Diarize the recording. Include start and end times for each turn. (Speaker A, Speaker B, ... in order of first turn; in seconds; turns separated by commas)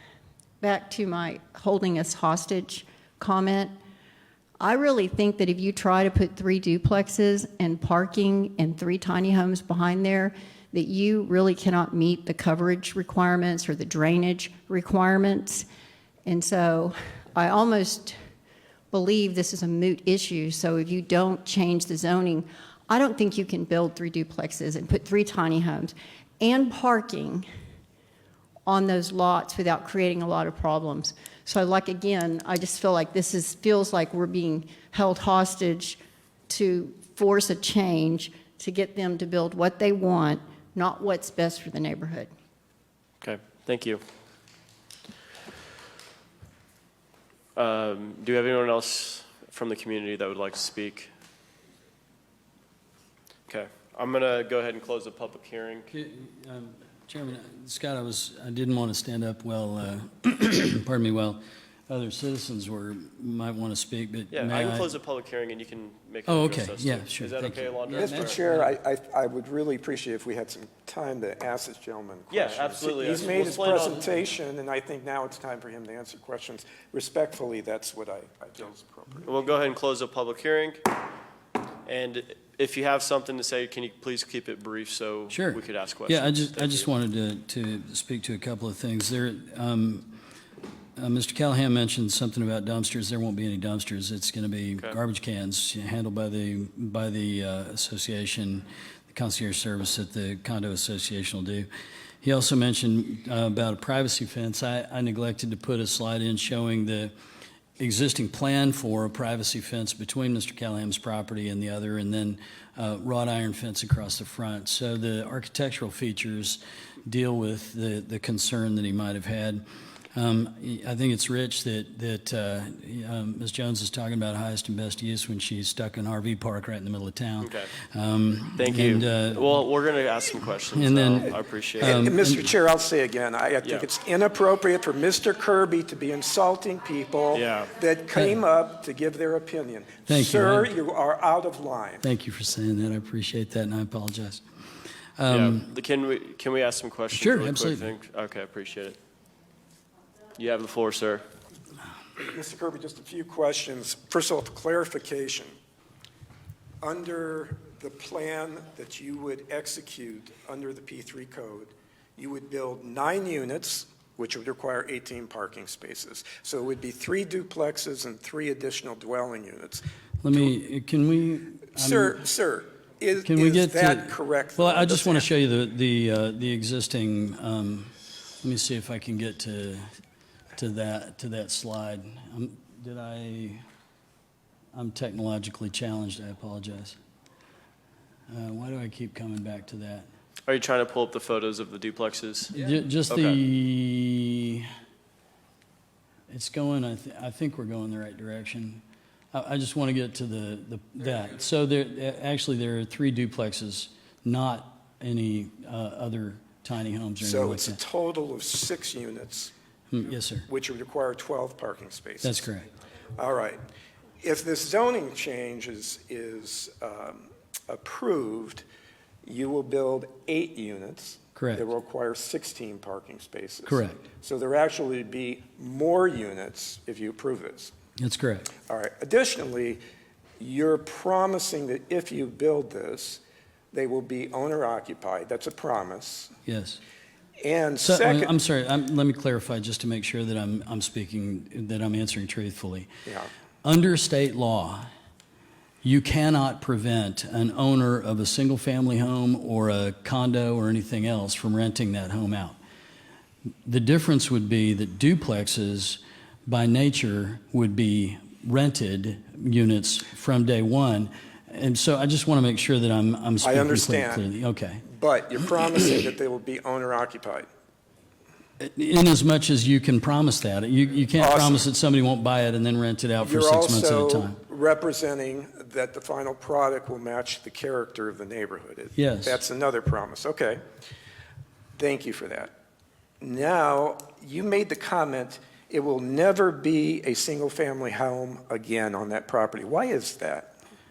Speaker A: 0.6-3.7, Speaker A: 4.6-15.7, Speaker A: 16.2-18.1, Speaker A: 18.9-27.4, Speaker A: 28.6-42.3, Speaker B: 43.2-44.0, Speaker B: 47.5-51.1, Speaker B: 53.5-55.9, Speaker C: 55.9-64.9, Speaker B: 64.3-68.4, Speaker C: 66.3-68.7, Speaker D: 67.9-79.3, Speaker B: 72.3-74.1, Speaker B: 79.2-80.8, Speaker B: 81.8-86.9, Speaker C: 85.3-90.2, Speaker C: 91.0-101.7, Speaker C: 102.2-107.1, Speaker C: 107.8-129.5, Speaker B: 127.4-127.7, Speaker B: 128.5-132.1, Speaker C: 130.7-132.5, Speaker D: 131.8-142.1, Speaker B: 133.6-133.9, Speaker B: 137.3-137.7, Speaker C: 138.1-138.4, Speaker C: 140.1-140.8, Speaker C: 142.0-144.4, Speaker C: 145.2-145.7, Speaker B: 145.3-149.0, Speaker C: 147.1-147.9, Speaker B: 150.3-151.2, Speaker D: 152.2-155.5, Speaker D: 156.8-169.8, Speaker C: 170.2-172.2, Speaker D: 171.8-175.3, Speaker C: 173.2-179.8, Speaker C: 180.6-183.6, Speaker C: 184.7-187.0, Speaker C: 188.3-190.1, Speaker B: 190.4-192.5, Speaker C: 192.5-194.7, Speaker B: 193.1-193.4, Speaker C: 196.3-207.8, Speaker D: 207.2-209.5, Speaker C: 209.9-210.5, Speaker D: 210.5-212.4, Speaker C: 212.2-212.7, Speaker D: 213.2-213.6, Speaker D: 214.2-218.6, Speaker D: 219.2-227.7, Speaker C: 221.3-221.7, Speaker C: 223.7-224.0, Speaker C: 228.0-228.5, Speaker D: 228.7-229.8, Speaker D: 230.4-233.2, Speaker D: 233.7-236.3, Speaker C: 236.4-236.8, Speaker D: 237.4-238.3, Speaker C: 237.8-242.9, Speaker C: 243.6-244.9, Speaker C: 245.8-252.6, Speaker C: 253.6-264.8, Speaker D: 263.4-264.2, Speaker D: 264.9-267.5, Speaker C: 268.6-274.4, Speaker D: 271.2-271.7, Speaker D: 273.2-280.6, Speaker C: 279.0-279.4, Speaker D: 281.7-282.5, Speaker D: 283.2-290.5